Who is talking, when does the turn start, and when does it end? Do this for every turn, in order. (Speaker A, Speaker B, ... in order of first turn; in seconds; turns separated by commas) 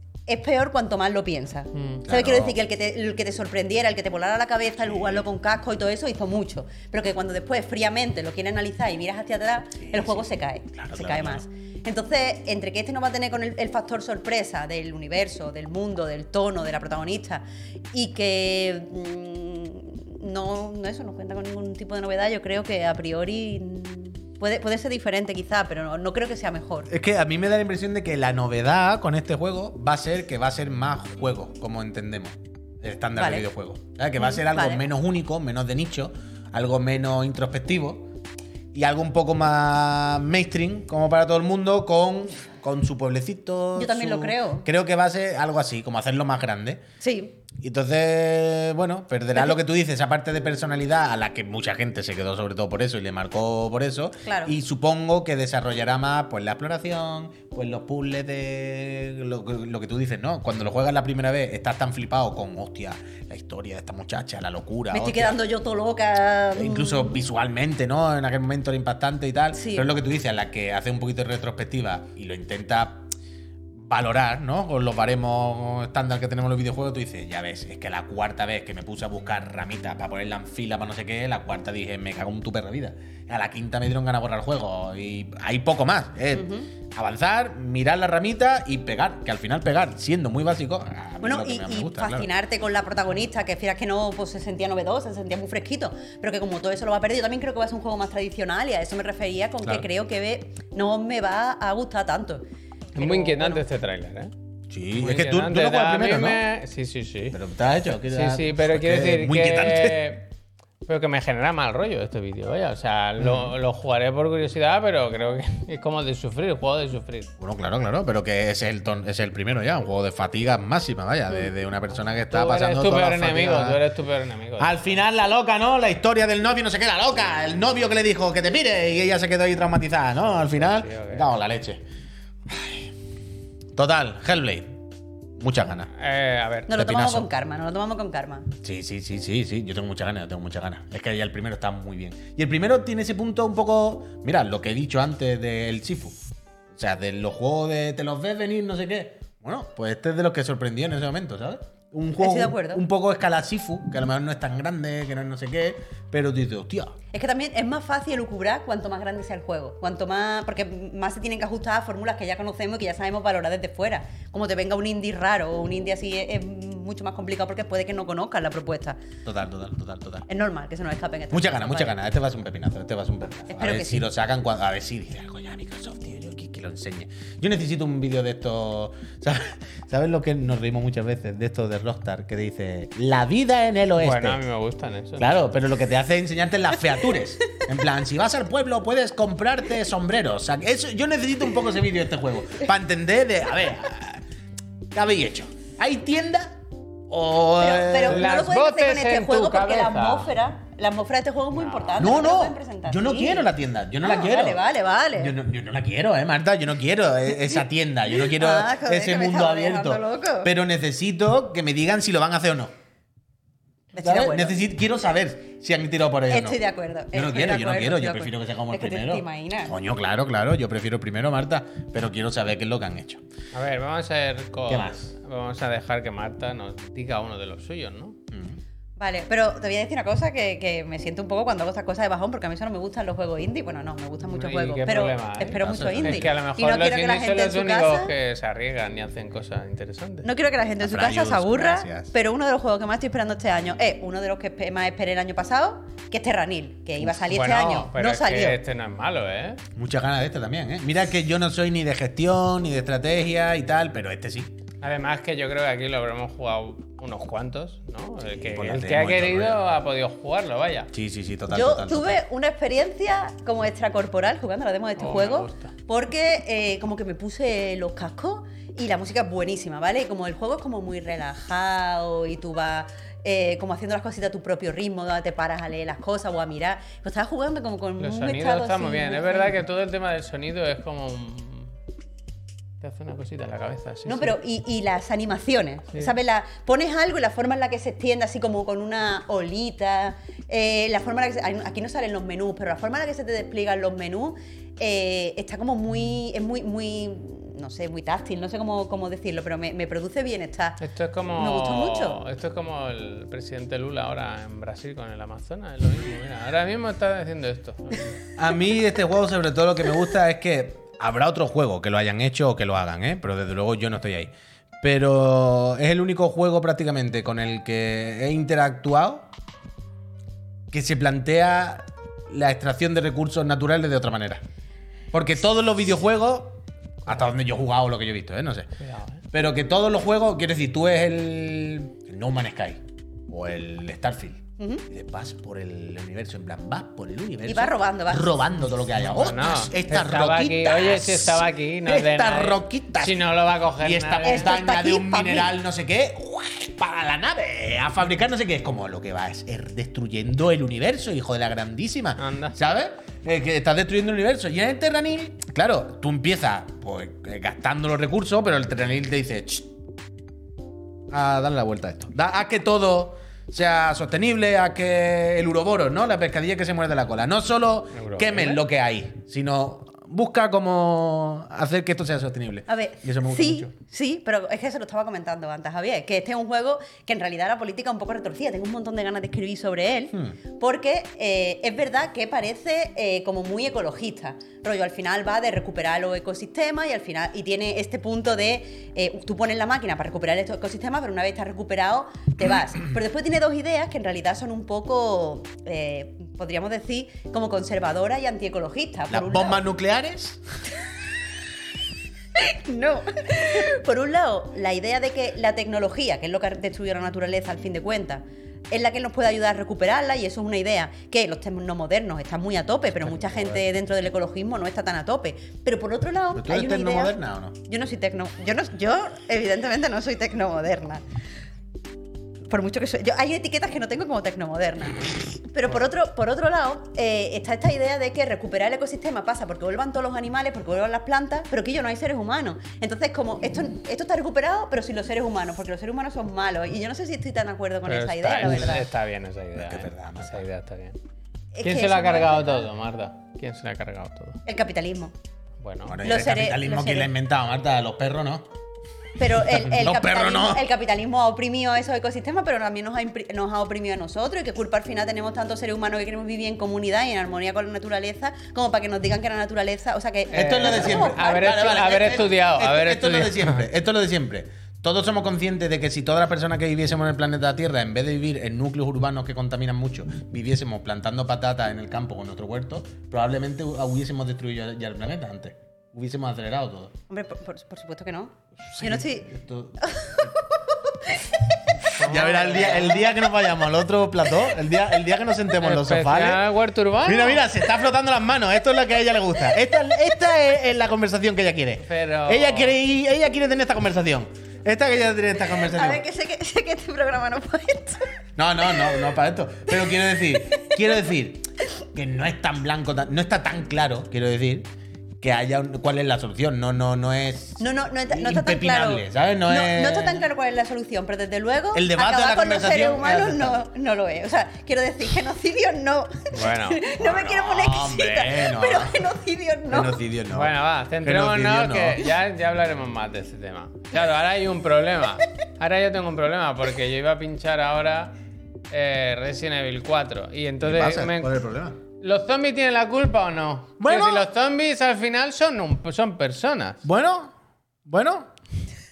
Speaker A: 0.3-26.9, Speaker B: 1.7-2.0, Speaker C: 2.0-2.6, Speaker C: 9.8-11.4, Speaker C: 26.9-38.1, Speaker A: 33.2-33.5, Speaker A: 34.2-34.8, Speaker C: 38.7-46.8, Speaker A: 43.7-44.6, Speaker A: 47.0-47.4, Speaker C: 47.5-65.4, Speaker A: 54.2-54.5, Speaker A: 64.9-67.2, Speaker C: 66.5-73.1, Speaker A: 69.5-69.9, Speaker C: 73.8-92.3, Speaker A: 86.3-86.7, Speaker A: 91.2-102.4, Speaker A: 102.9-103.6, Speaker B: 103.0-104.3, Speaker C: 104.7-106.4, Speaker B: 104.9-107.4, Speaker C: 107.3-110.1, Speaker B: 108.0-110.3, Speaker B: 110.8-117.3, Speaker C: 113.2-113.5, Speaker C: 117.4-123.8, Speaker B: 121.9-124.9, Speaker C: 124.6-131.8, Speaker B: 130.6-131.3, Speaker C: 132.5-132.9, Speaker C: 133.7-134.7, Speaker C: 135.4-135.9, Speaker B: 135.9-136.7, Speaker A: 136.7-138.5, Speaker C: 136.7-137.3, Speaker C: 138.6-146.2, Speaker C: 146.7-156.9, Speaker A: 152.2-152.8, Speaker A: 157.1-169.0, Speaker C: 169.2-170.2, Speaker A: 170.3-172.0, Speaker C: 171.3-184.4, Speaker A: 173.5-174.1, Speaker B: 184.0-185.3, Speaker C: 185.2-194.2, Speaker C: 194.9-196.5, Speaker C: 197.1-198.3, Speaker A: 197.6-203.5, Speaker B: 198.0-200.3, Speaker B: 201.5-202.0, Speaker C: 202.0-204.6, Speaker A: 204.0-205.3, Speaker C: 205.2-212.7, Speaker A: 208.1-210.5, Speaker A: 213.9-214.6, Speaker C: 214.0-216.6, Speaker A: 216.3-219.7, Speaker C: 217.1-223.2, Speaker B: 223.5-228.2, Speaker C: 224.7-225.1, Speaker C: 228.3-228.6, Speaker A: 229.0-238.1, Speaker B: 234.2-240.3, Speaker C: 235.5-236.3, Speaker A: 240.2-248.6, Speaker C: 240.8-242.1, Speaker B: 247.2-249.6, Speaker C: 249.7-254.5, Speaker B: 254.8-260.9, Speaker C: 258.2-259.6, Speaker C: 260.9-262.2, Speaker A: 261.5-279.6, Speaker B: 265.0-265.7, Speaker B: 278.0-281.7, Speaker B: 282.8-284.4, Speaker A: 284.1-300.8, Speaker B: 300.8-308.1, Speaker A: 301.3-302.2, Speaker C: 308.4-319.2, Speaker C: 320.7-324.4, Speaker C: 325.1-328.7, Speaker B: 328.8-329.2, Speaker C: 329.3-359.7, Speaker A: 334.6-334.8, Speaker A: 337.4-338.5, Speaker B: 339.0-344.6, Speaker A: 344.2-345.5, Speaker B: 352.2-352.6, Speaker C: 361.1-373.7, Speaker B: 367.9-368.6, Speaker A: 372.7-399.6, Speaker C: 399.1-400.4, Speaker A: 402.4-417.1, Speaker C: 413.1-413.6, Speaker C: 416.4-417.6, Speaker A: 417.7-421.0, Speaker A: 422.5-438.9, Speaker B: 437.8-441.0, Speaker C: 438.4-438.8, Speaker C: 439.5-440.4, Speaker A: 441.5-442.7, Speaker B: 441.6-444.4, Speaker A: 444.4-445.1, Speaker B: 445.6-446.0, Speaker C: 445.9-448.4, Speaker A: 446.0-447.1, Speaker A: 449.2-461.9, Speaker C: 449.4-450.6, Speaker B: 460.3-463.6, Speaker C: 460.3-476.9, Speaker A: 477.1-480.5, Speaker C: 478.6-480.3, Speaker A: 481.0-481.6, Speaker B: 482.0-483.0, Speaker C: 482.0-486.4, Speaker A: 482.6-483.1, Speaker B: 485.6-487.5, Speaker C: 487.0-496.0, Speaker B: 491.8-492.8, Speaker A: 495.4-498.1, Speaker C: 498.4-504.7, Speaker A: 498.7-499.1, Speaker A: 500.5-500.7, Speaker C: 505.2-510.3, Speaker A: 507.6-520.0, Speaker C: 511.7-513.6, Speaker B: 516.3-516.8, Speaker C: 517.0-519.1, Speaker C: 519.7-522.1, Speaker B: 520.3-528.1, Speaker B: 528.7-531.3, Speaker C: 530.6-531.8, Speaker B: 532.0-536.8, Speaker C: 533.8-534.3, Speaker C: 536.8-537.3, Speaker C: 537.9-538.3